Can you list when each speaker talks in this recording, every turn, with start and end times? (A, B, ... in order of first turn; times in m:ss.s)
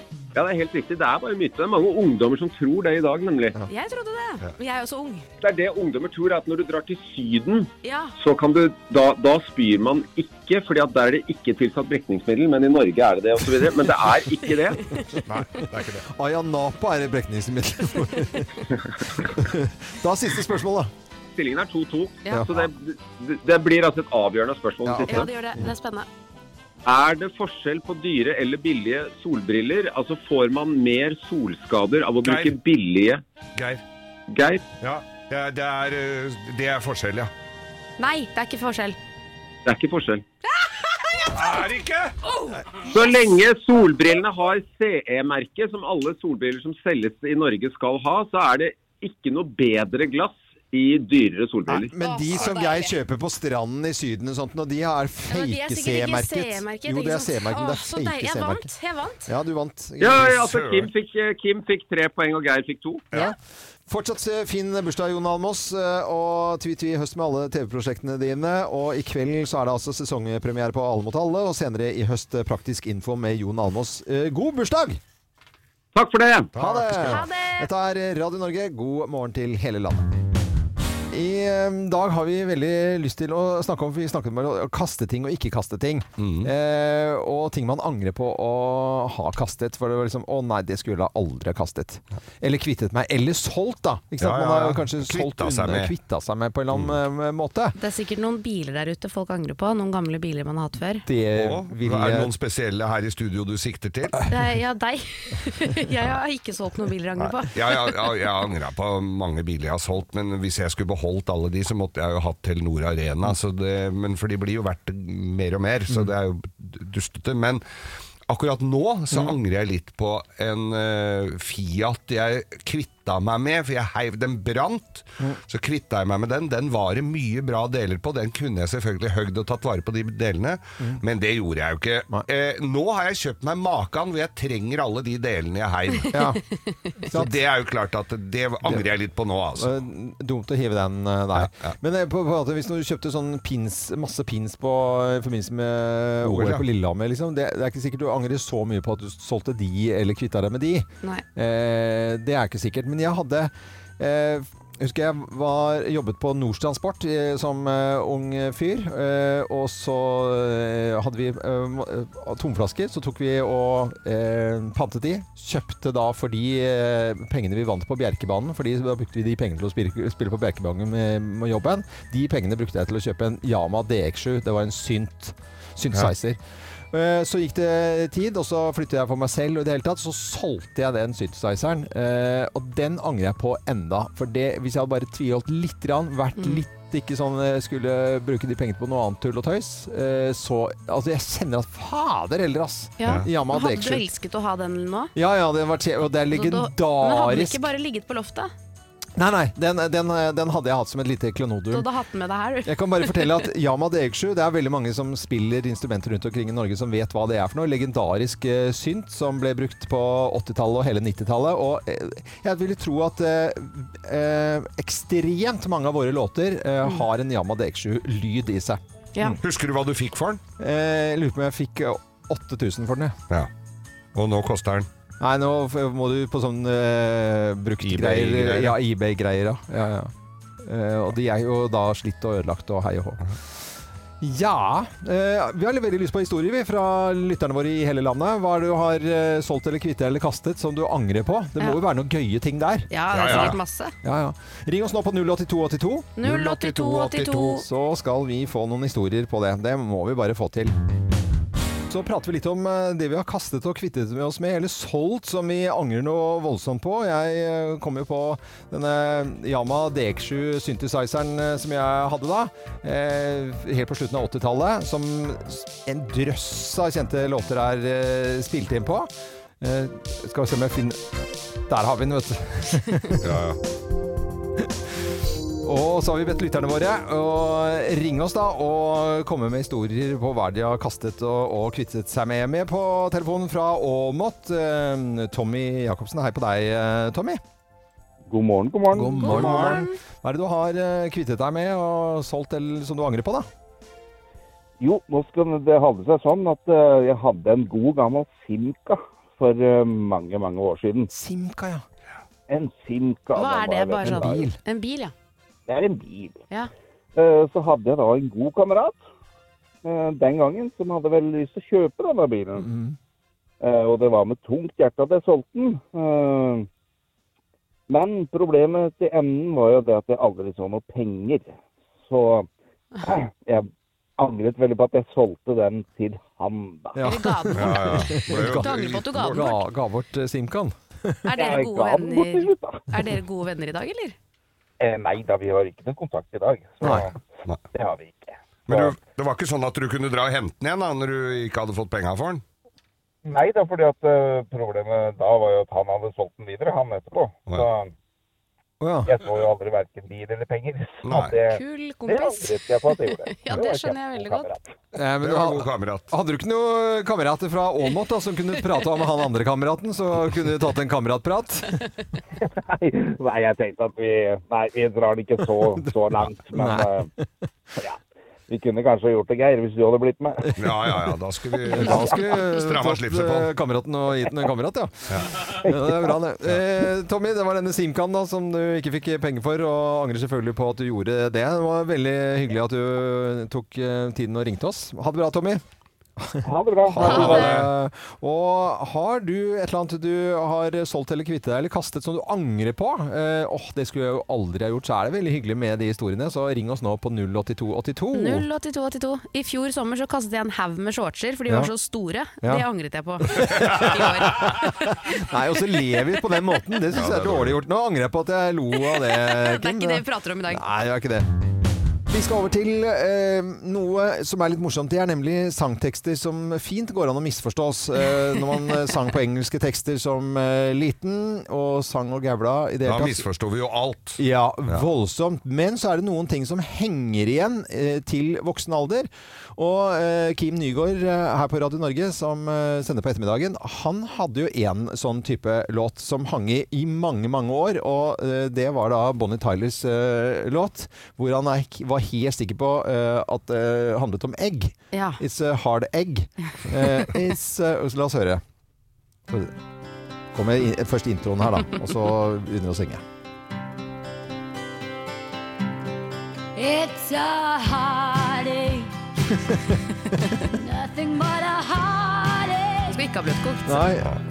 0:00.3-0:03.6 A
0:03.6-0:05.2 B
0:05.4-0:14.8 A
0:07.8-0:08.1 B
0:14.5-0:15.2 B
0:15.3-0:16.0 C
0:16.0-0:18.7 D
0:19.2-0:20.9 D
0:21.4-0:25.3 A
0:24.8-0:25.7 D
0:25.0-0:26.1 B
0:26.8-0:33.2 A
0:32.2-0:32.5 C
0:33.6-0:33.8 C
0:34.3-0:34.6 A
0:34.8-0:37.3 C
0:38.0-0:39.0 B
0:39.6-0:40.2 A
0:41.3-0:42.1 C
0:42.8-0:51.9 A
0:51.7-0:58.6 D
0:52.0-0:52.9 B
0:55.3-0:59.3 B
0:59.2-1:00.4 D
1:00.0-1:03.0 A
1:00.2-1:00.9 C
1:03.9-1:15.0 D
1:15.9-1:16.5 A
1:16.6-1:20.0 D
1:16.6-1:17.2 C
1:17.0-1:17.7 B
1:21.1-1:37.8 D
1:26.2-1:26.5 C
1:34.2-1:35.9 C
1:37.8-1:41.0 B
1:41.0-1:42.3 D
1:41.4-1:44.2 C
1:44.3-1:48.0 B
1:47.2-1:57.6 C
1:58.3-2:16.1 C
2:16.1-2:16.4 D
2:17.0-2:17.4 D
2:17.1-2:19.8 C
2:19.6-2:56.4 D
2:21.3-2:21.7 C
2:26.2-2:26.6 C
2:56.9-3:14.0 D
3:06.4-3:06.6 B
3:13.0-3:15.1 B
3:15.1-3:17.7 D
3:16.3-3:18.5 B
3:19.2-3:21.8 D
3:21.7-3:23.4 B
3:22.6-3:39.4 D
3:39.4-3:40.4 C
3:40.6-3:43.2 D
3:44.1-3:44.9 C
3:45.2-3:53.2 D
3:47.8-3:48.8 C
3:54.2-4:06.2 D
4:02.9-4:03.9 B
4:03.1-4:03.6 C
4:06.2-4:07.6 B
4:06.2-4:07.4 C
4:06.8-4:10.7 D
4:11.9-4:29.1 D
4:29.6-4:31.1 D
4:31.7-4:33.2 D
4:33.2-4:33.6 C
4:35.6-4:47.4 D
4:48.3-4:49.8 E
4:48.9-4:53.5 D
4:49.2-4:50.0 B
4:49.3-4:49.6 C
4:54.8-5:01.1 E
5:01.1-5:01.8 D
5:02.5-5:04.4 E
5:03.3-5:05.1 B
5:04.0-5:04.6 D
5:05.7-5:06.4 E
5:07.1-5:09.0 E
5:09.8-5:12.7 E
5:12.6-5:13.0 D
5:13.6-5:16.7 E
5:17.9-5:22.5 E
5:23.0-5:23.7 E
5:24.2-5:27.0 E
5:26.9-5:31.3 D
5:27.0-5:29.6 B
5:27.6-5:29.5 C
5:31.2-5:34.1 B
5:31.4-5:32.9 E
5:34.8-5:37.2 E
5:36.8-5:37.0 D
5:37.7-5:38.8 E
5:38.7-5:42.4 C
5:43.2-5:47.9 E
5:48.8-5:49.1 D
5:49.0-5:54.7 E
5:51.0-5:51.4 C
5:51.4-5:54.5 B
5:54.9-6:01.8 D
5:55.2-5:56.1 C
6:02.4-6:07.1 E
6:06.6-6:07.3 D
6:07.8-6:10.5 E
6:10.5-6:10.9 D
6:10.6-6:13.5 C
6:11.7-6:25.6 D
6:11.8-6:12.1 E
6:15.1-6:15.4 C
6:15.5-6:16.1 E
6:26.2-6:38.4 D
6:26.4-6:27.5 E
6:27.0-6:27.6 B
6:27.0-6:27.7 C
6:38.1-6:45.1 B
6:43.3-6:51.2 D
6:43.5-6:43.8 C
6:46.9-6:47.6 C
6:49.0-6:50.6 B
6:52.1-7:03.2 D
7:02.8-7:04.9 C
7:04.2-7:28.4 D
7:24.9-7:25.2 B
7:29.3-7:29.6 D
7:30.3-7:33.0 D
7:36.6-7:38.9 F
7:40.5-7:43.0 F
7:42.9-7:43.9 B
7:43.6-7:44.1 D